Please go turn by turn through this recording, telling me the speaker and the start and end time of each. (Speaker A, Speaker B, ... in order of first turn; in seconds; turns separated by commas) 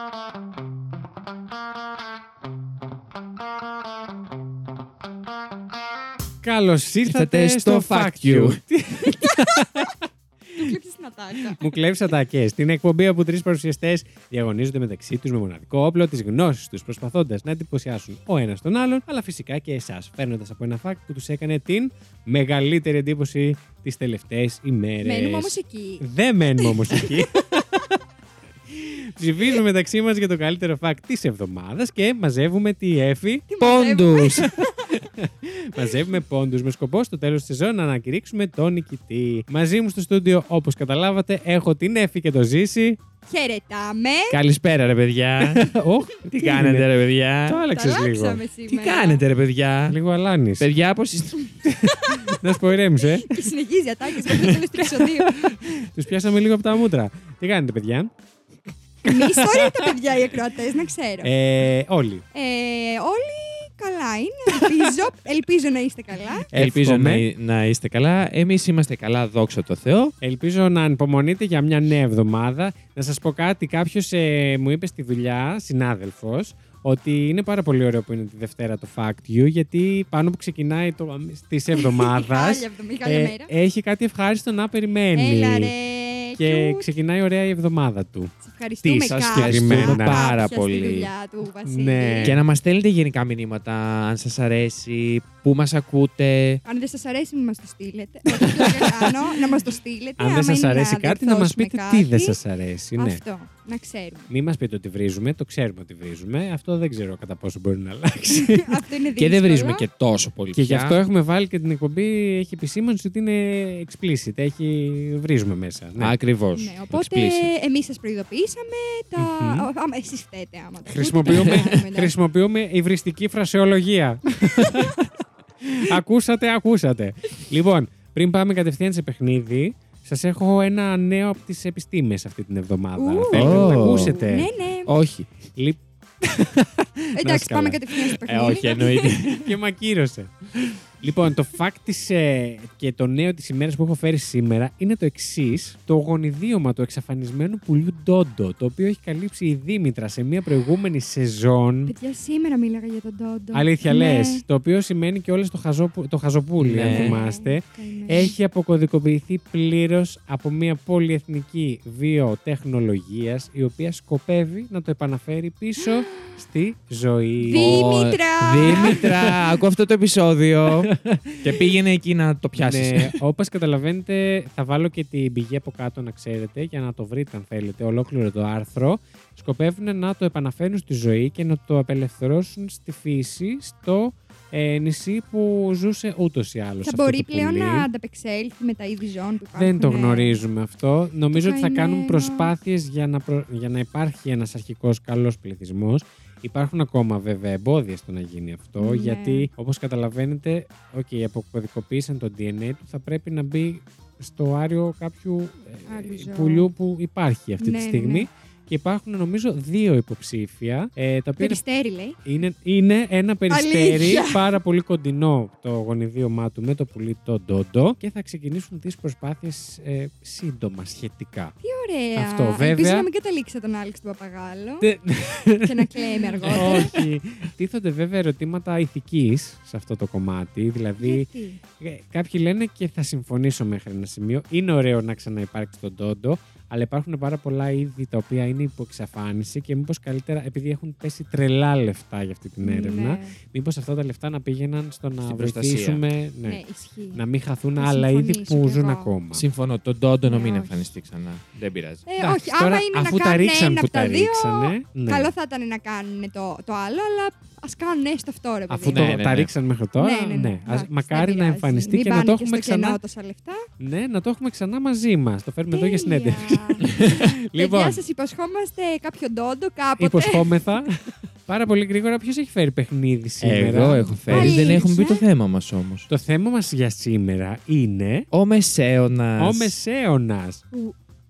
Speaker A: 6.4-10.8, Speaker B: 7.0-8.6, Speaker C: 9.2-9.9, Speaker C: 10.6-11.7, Speaker A: 11.4-27.9, Speaker C: 25.0-27.4, Speaker A: 28.7-33.5, Speaker C: 33.5-35.1, Speaker B: 33.6-34.6, Speaker A: 34.9-43.0, Speaker C: 43.3-44.4, Speaker B: 44.3-45.7, Speaker A: 45.5-46.9, Speaker B: 46.3-47.6, Speaker A: 47.5-48.4, Speaker C: 47.7-49.2, Speaker B: 48.7-50.0, Speaker A: 49.9-50.7, Speaker B: 50.6-51.5, Speaker A: 51.6-53.5, Speaker C: 51.8-55.5, Speaker A: 54.9-58.1, Speaker A: 59.0-60.0, Speaker C: 59.0-61.3, Speaker A: 61.2-62.2, Speaker C: 62.3-66.5, Speaker A: 66.5-67.3, Speaker B: 66.5-70.1, Speaker A: 70.2-85.7, Speaker C: 81.8-83.5, Speaker C: 85.1-86.9, Speaker A: 86.4-88.3, Speaker C: 88.4-92.4, Speaker B: 88.8-91.1, Speaker A: 89.3-90.2, Speaker A: 91.7-92.4, Speaker B: 92.2-96.6, Speaker C: 96.7-102.4, Speaker A: 100.2-103.2, Speaker C: 103.0-104.3, Speaker A: 104.3-108.9, Speaker C: 108.3-109.8, Speaker B: 109.2-111.0, Speaker A: 110.5-116.2, Speaker B: 116.0-117.5, Speaker C: 116.5-122.1, Speaker A: 119.2-119.7, Speaker A: 120.9-125.0, Speaker B: 121.3-121.6, Speaker C: 124.6-125.0, Speaker A: 125.6-134.5, Speaker C: 133.0-134.9, Speaker B: 133.3-134.2, Speaker B: 134.9-135.3, Speaker A: 135.5-138.1, Speaker C: 137.1-139.3, Speaker B: 138.3-139.5, Speaker A: 139.2-151.9, Speaker C: 151.9-154.4, Speaker A: 153.5-167.9, Speaker B: 156.6-157.2, Speaker C: 156.9-158.3, Speaker C: 165.8-166.4, Speaker C: 167.4-169.4, Speaker B: 167.5-173.2, Speaker A: 168.6-169.4, Speaker A: 170.9-171.5, Speaker A: 172.6-187.9, Speaker C: 186.8-190.4, Speaker A: 189.6-211.6, Speaker C: 191.3-192.5, Speaker C: 198.8-199.5, Speaker C: 205.9-206.7, Speaker C: 207.6-208.3, Speaker C: 211.4-212.2, Speaker A: 212.2-221.6, Speaker C: 213.5-214.6, Speaker C: 221.6-224.9, Speaker A: 222.2-223.1, Speaker A: 224.8-246.6, Speaker C: 225.6-227.0, Speaker B: 226.4-226.7, Speaker C: 231.0-231.6, Speaker C: 242.6-243.4, Speaker B: 245.2-246.0, Speaker C: 246.5-247.2, Speaker A: 247.1-249.5, Speaker C: 247.8-249.1, Speaker B: 249.3-252.1, Speaker C: 250.2-250.8, Speaker C: 252.1-259.2, Speaker A: 252.2-255.3, Speaker A: 258.7-263.0, Speaker B: 258.9-259.5, Speaker C: 260.0-263.7, Speaker A: 263.8-268.0, Speaker C: 265.7-270.6, Speaker B: 266.9-267.2, Speaker A: 270.0-274.9, Speaker B: 273.4-276.1, Speaker C: 274.3-275.2, Speaker A: 276.1-278.3, Speaker B: 278.3-279.7, Speaker A: 279.4-280.6